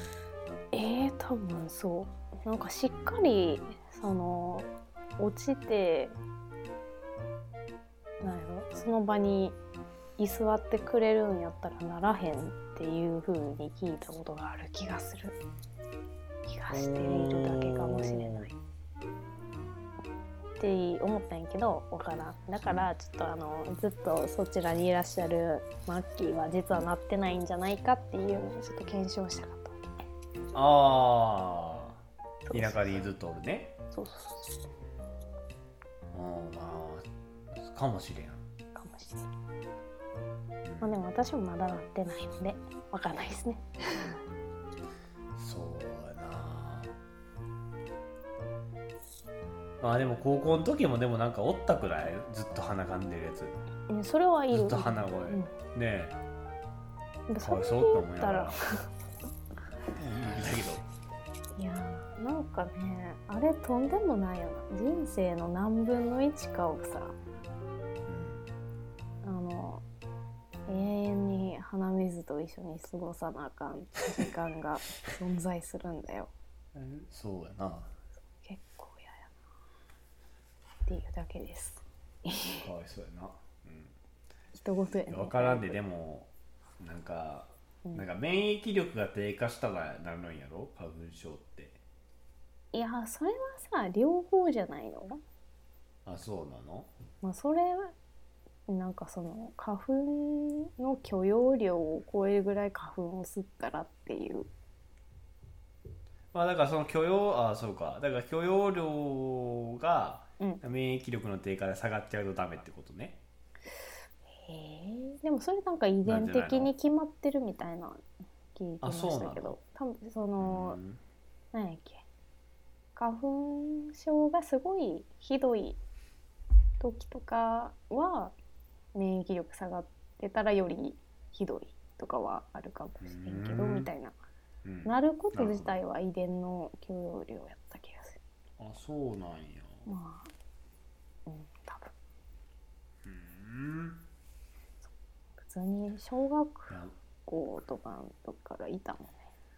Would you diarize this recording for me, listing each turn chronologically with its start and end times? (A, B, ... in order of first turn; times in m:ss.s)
0:00.7-0:06.2 A
0:08.2-0:09.6 A
0:10.2-0:15.3 A
0:16.4-0:18.5 A
0:16.7-0:18.5 B
0:20.6-0:29.9 A
0:30.5-0:33.7 B
0:32.4-0:33.0 A
0:33.9-0:34.6 A
0:36.1-0:38.4 B
0:38.7-0:39.3 A
0:40.6-0:41.0 B
0:40.8-0:44.1 A
0:45.4-0:47.0 B
0:49.8-0:53.6 B
0:53.9-0:55.5 A
0:54.5-0:56.2 B
0:57.3-0:58.6 A
0:57.4-0:58.6 B
0:59.9-1:00.8 B
1:01.6-1:07.2 A
1:08.1-1:08.5 B
1:09.2-1:09.8 A
1:10.7-1:16.3 A
1:16.7-1:17.9 B
1:18.4-1:19.3 A
1:20.9-1:22.7 A
1:22.6-1:23.9 B
1:24.5-1:25.8 A
1:25.1-1:31.8 B
1:32.7-1:35.2 A
1:36.0-1:36.9 B
1:37.2-1:37.9 A
1:38.7-1:44.5 A
1:46.3-1:53.2 B
1:54.4-1:58.0 A
1:56.0-1:56.7 B
1:58.5-2:00.8 A
1:58.8-1:59.6 B
2:00.4-2:01.0 B
2:01.5-2:02.0 A
2:03.0-2:05.8 A
2:06.8-2:08.4 A
2:08.9-2:14.2 A
2:13.0-2:13.9 B
2:14.6-2:15.8 B
2:14.8-2:18.2 A
2:18.6-2:19.9 B
2:19.8-2:20.3 A
2:21.2-2:21.9 A
2:23.0-2:24.0 B
2:25.4-2:29.3 A
2:26.7-2:26.9 B